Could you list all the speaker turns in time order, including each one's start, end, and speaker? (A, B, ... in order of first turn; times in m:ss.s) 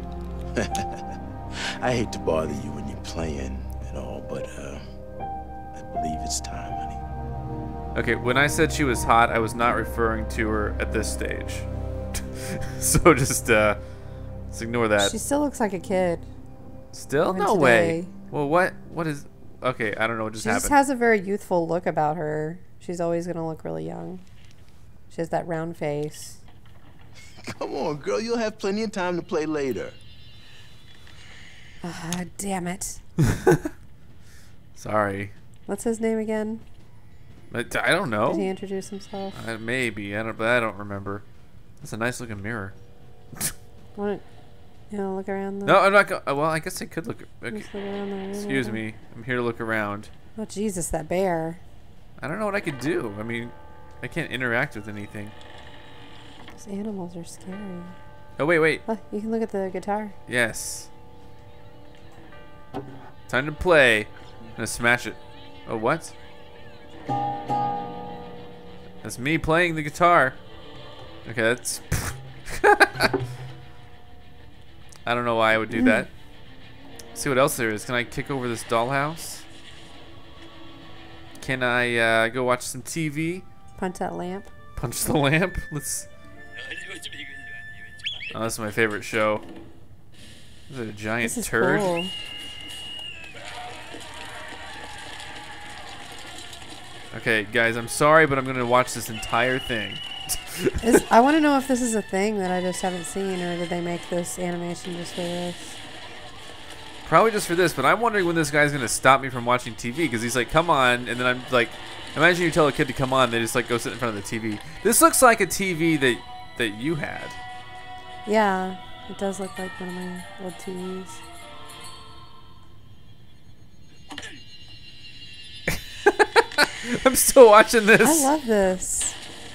0:00.6-0:04.8 A
0:05.7-0:07.0 A
0:07.9-0:13.8 B
0:14.5-0:15.2 B
0:15.0-0:16.3 C
0:16.9-0:20.8 B
0:17.2-0:18.1 C
0:20.4-0:24.2 C
0:25.1-0:26.4 C
0:27.4-0:30.0 A
0:31.8-0:33.0 C
0:33.3-0:33.7 B
0:34.8-0:35.3 B
0:35.7-0:36.6 C
0:37.5-0:38.5 B
0:38.2-0:39.4 C
0:39.3-0:41.2 B
0:41.8-0:42.7 B
0:43.9-0:44.2 C
0:44.9-0:45.8 C
0:45.6-0:47.7 B
0:47.5-0:48.8 C
0:48.3-0:50.1 B
0:50.4-0:51.6 C
0:52.2-0:55.3 B
0:56.6-0:58.0 C
0:58.4-0:58.8 B
0:58.8-1:00.1 C
1:00.3-1:00.9 B
1:03.3-1:06.1 B
1:09.0-1:10.4 B
1:11.2-1:13.1 B
1:15.0-1:16.1 B
1:15.7-1:16.1 C
1:17.1-1:19.4 B
1:21.4-1:23.4 B
1:23.8-1:24.5 C
1:24.8-1:26.1 B
1:28.3-1:29.4 B
1:30.7-1:31.9 B
1:31.2-1:32.1 C
1:37.1-1:41.0 B
1:40.8-1:45.8 C
1:47.0-1:57.4 B
1:58.2-2:01.2 C
2:05.7-2:08.3 B
2:08.0-2:09.2 C